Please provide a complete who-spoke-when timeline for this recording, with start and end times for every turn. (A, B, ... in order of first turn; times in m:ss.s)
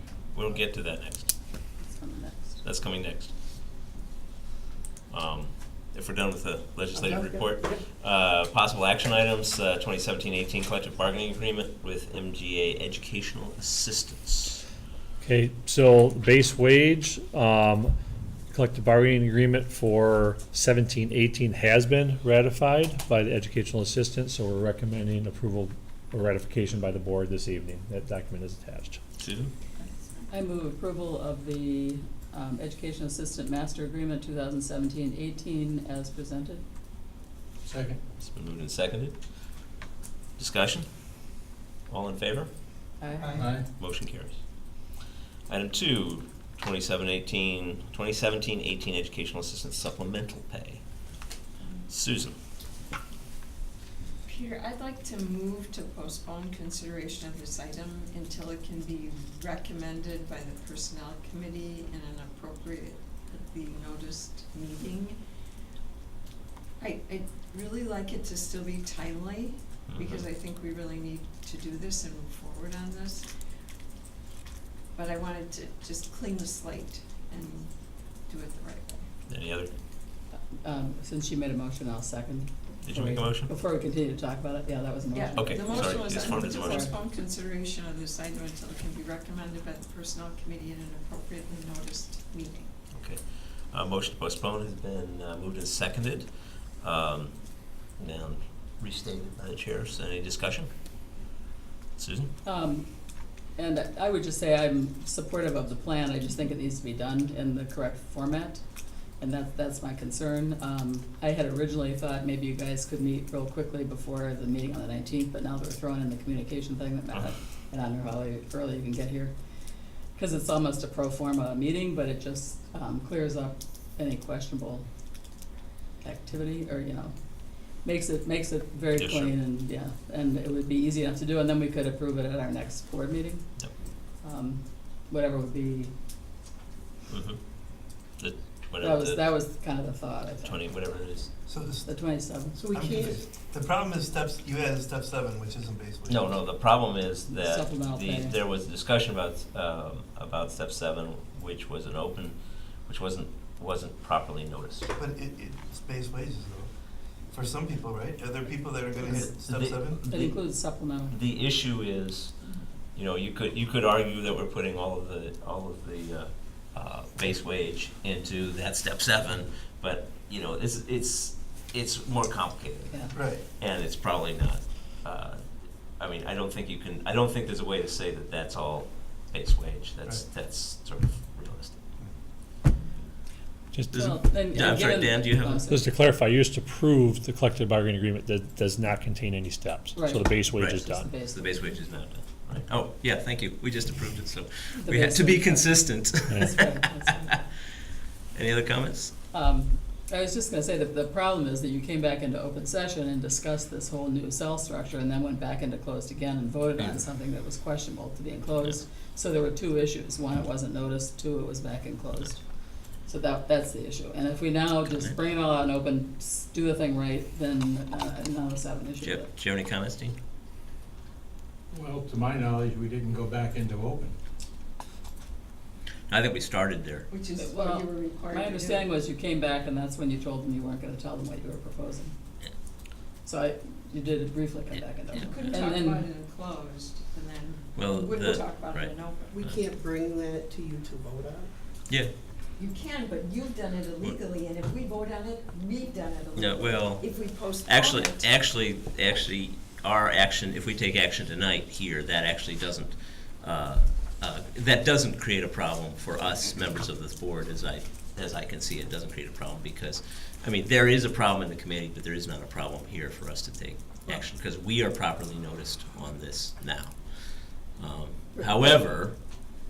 0:00.3-0:01.3 A
0:01.8-0:02.6 B
0:02.6-0:03.3 A
0:05.1-0:14.6 A
0:07.0-0:07.6 C
0:15.2-0:18.0 D
0:18.5-0:29.0 D
0:29.2-0:29.5 A
0:29.8-0:30.3 E
0:30.3-0:36.6 B
0:37.6-0:38.0 F
0:38.2-0:39.7 A
0:40.4-0:41.4 A
0:41.9-0:42.5 A
0:43.0-0:43.6 B
0:43.4-0:43.7 F
0:43.8-0:44.9 A
0:45.5-0:50.8 A
0:51.9-0:52.4 A
0:54.3-1:05.2 E
1:06.8-1:13.3 E
1:09.9-1:10.2 A
1:15.0-1:17.7 E
1:18.3-1:19.1 E
1:19.3-1:19.7 A
1:20.3-1:26.9 B
1:22.8-1:23.5 A
1:25.1-1:32.7 E
1:25.4-1:26.9 A
1:32.9-1:36.3 A
1:36.8-1:40.7 A
1:42.0-1:42.3 A
1:42.4-1:42.9 B
1:43.6-1:48.6 B
1:49.2-1:59.3 B
2:00.2-2:04.9 B
2:06.0-2:13.5 B
2:09.0-2:09.3 A
2:14.2-2:15.9 B
2:17.1-2:17.4 A
2:18.2-2:19.2 A
2:18.8-2:20.6 B
2:20.4-2:21.3 A
2:21.5-2:22.2 G
2:21.8-2:22.6 B
2:22.6-2:23.3 C
2:22.7-2:26.4 G
2:26.1-2:34.9 A
2:27.3-2:28.4 B
2:35.0-2:36.7 G
2:37.3-2:40.0 G
2:39.1-2:42.4 A
2:40.1-2:41.2 B
2:43.0-3:01.8 A
2:52.9-2:53.2 B
2:53.1-2:53.4 G
3:03.7-3:04.1 D
3:03.9-3:05.6 A
3:03.9-3:06.0 B
3:05.7-3:11.1 D
3:10.0-3:11.7 B
3:10.6-3:17.4 A
3:14.8-3:17.4 B
3:18.3-3:19.1 A
3:19.3-3:32.5 B
3:33.0-3:39.3 B
3:34.9-3:35.2 A
3:39.0-3:40.2 A
3:41.7-3:44.2 F
3:46.1-3:47.1 A
3:47.1-3:48.9 E
3:47.4-3:52.1 B
3:53.2-3:56.1 B
3:55.1-3:59.4 E
3:57.8-3:59.6 A
3:59.3-4:01.5 C
4:02.6-4:08.3 E
4:06.4-4:29.5 A